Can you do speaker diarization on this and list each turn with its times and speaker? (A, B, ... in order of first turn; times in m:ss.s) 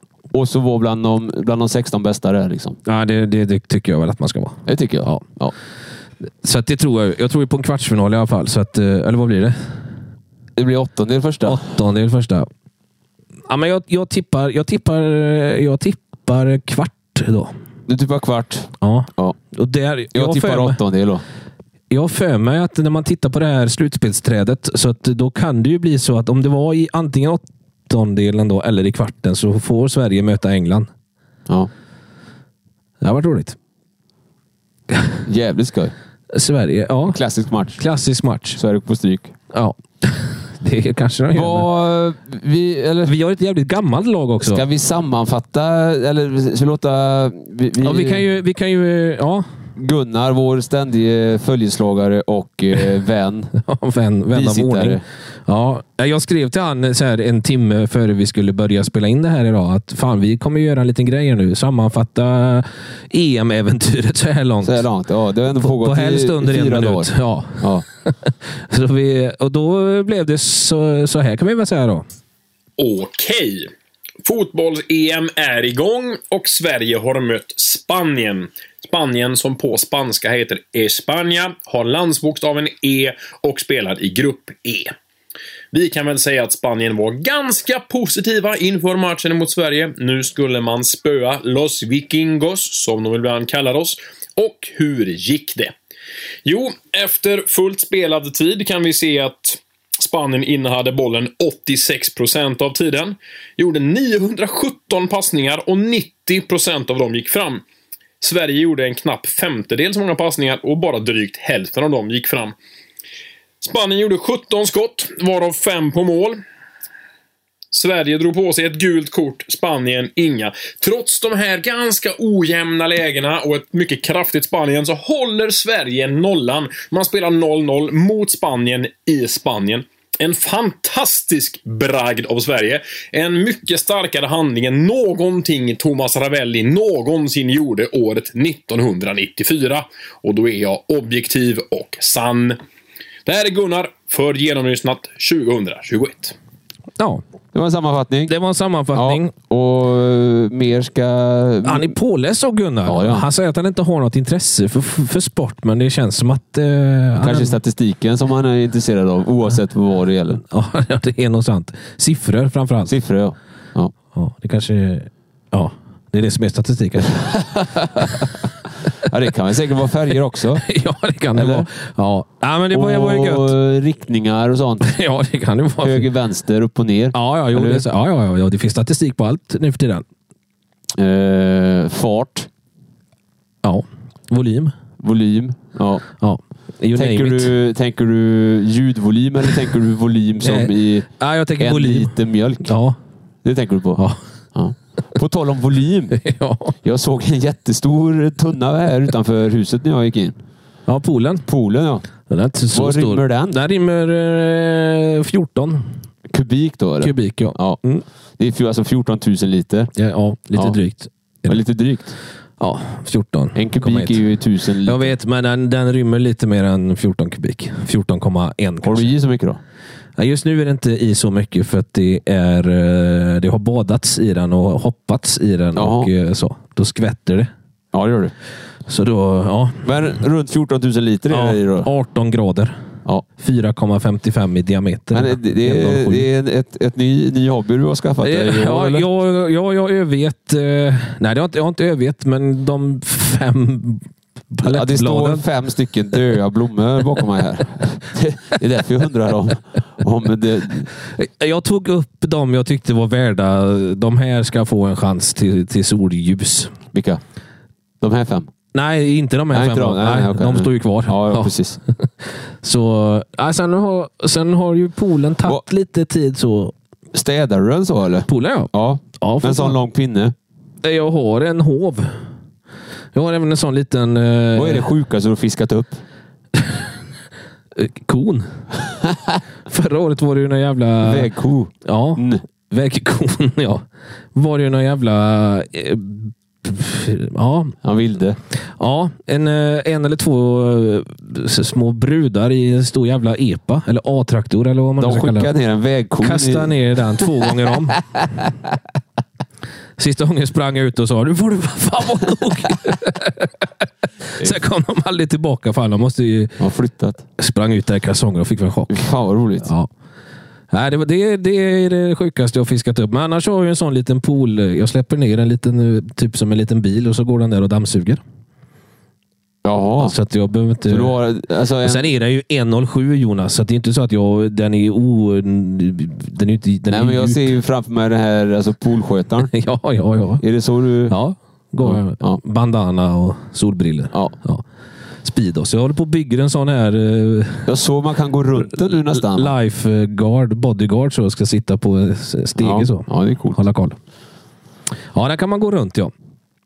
0:00.3-0:02.8 A
0:02.9-0:05.2 B
0:04.7-0:05.5 A
0:06.4-0:09.6 B
0:10.6-0:11.6 A
0:11.4-0:12.5 B
0:13.5-0:17.5 B
0:17.9-0:19.4 A
0:18.8-0:20.8 B
0:20.1-0:21.2 A
0:21.9-0:30.9 B
0:33.0-0:33.6 B
0:35.3-0:35.9 A
0:36.3-0:37.2 B
0:37.1-0:37.8 A
0:37.8-0:38.6 B
0:38.6-0:39.3 A
0:39.5-0:41.7 B
0:41.3-0:43.1 A
0:43.0-0:44.6 B
0:44.4-0:48.2 A
0:47.8-0:49.5 B
0:49.8-0:53.5 A
0:53.6-1:04.8 B
0:54.3-0:55.0 A
1:04.6-1:07.8 A
1:05.6-1:12.1 B
1:12.8-1:13.7 C
1:14.2-1:24.9 C
1:25.7-1:35.7 C
1:36.4-1:47.6 C
1:48.2-1:52.6 C
1:53.6-1:56.4 C
1:57.7-2:22.6 C
2:23.3-2:26.4 C
2:27.5-2:28.3 A
2:28.3-2:29.3 B
2:28.9-2:32.0 A
2:31.6-2:37.6 B
2:32.9-2:33.3 A
2:37.2-2:40.4 A
2:40.4-2:42.9 B
2:42.9-2:43.9 A
2:44.1-2:47.4 B
2:47.3-2:48.3 A
2:49.0-2:50.6 A
2:50.6-2:53.5 B
2:51.4-2:51.6 A
2:52.7-2:54.9 A
2:54.8-2:56.1 B
2:55.8-2:57.8 A
2:57.1-3:00.0 B
3:01.0-3:02.5 A
3:03.6-3:04.8 B
3:05.0-3:06.0 A
3:06.2-3:07.5 B
3:07.0-3:11.1 A
3:10.4-3:13.0 B
3:11.6-3:12.7 A
3:13.4-3:14.0 A
3:14.6-3:16.2 A
3:16.2-3:16.7 B
3:16.8-3:20.4 A
3:20.9-3:21.5 B
3:21.5-3:22.0 A
3:22.3-3:25.9 B
3:22.7-3:23.6 A
3:26.3-3:27.8 A
3:27.0-3:28.0 B
3:28.4-3:29.9 A
3:30.0-3:31.6 B
3:31.5-3:32.2 A
3:32.6-3:34.2 B
3:33.6-3:35.1 A
3:34.8-3:39.1 B
3:38.8-3:39.6 A
3:40.2-3:47.5 B
3:45.8-3:46.1 A
3:47.9-3:48.3 A
3:48.9-3:49.9 B
3:49.8-3:51.9 A
3:51.3-3:52.8 B
3:53.4-3:56.3 B
3:55.1-3:59.0 A
3:58.2-4:05.4 B
4:04.6-4:10.9 A
4:11.1-4:16.7 B
4:16.9-4:17.2 A
4:18.0-4:18.5 A
4:18.7-4:26.7 B
4:19.5-4:21.8 A
4:27.1-4:30.3 A
4:28.3-4:29.8 B
4:30.8-4:32.2 B
4:33.1-4:34.9 B
4:34.6-4:36.0 A
4:36.6-4:36.8 B
4:37.8-4:38.5 B
4:39.7-4:41.3 B
4:41.0-4:42.4 A
4:41.8-4:47.8 B
4:47.8-4:48.4 A
4:48.8-4:55.5 B
4:55.0-4:57.2 A
4:56.2-4:58.0 B
5:00.0-5:06.6 B
5:06.6-5:07.2 A
5:07.4-5:09.1 B
5:08.9-5:09.7 A
5:09.6-5:09.9 B
5:10.7-5:18.2 B
5:19.6-5:20.2 A
5:20.0-5:21.2 B
5:20.9-5:22.1 A
5:21.8-5:27.5 B
5:26.9-5:29.5 A
5:29.5-5:30.4 B
5:30.4-5:31.2 A
5:31.1-5:34.6 B
5:31.8-5:32.4 A
5:35.2-5:37.7 B
5:37.7-5:39.5 A
5:39.1-5:44.0 B
5:42.6-5:43.6 A
5:45.1-5:46.1 B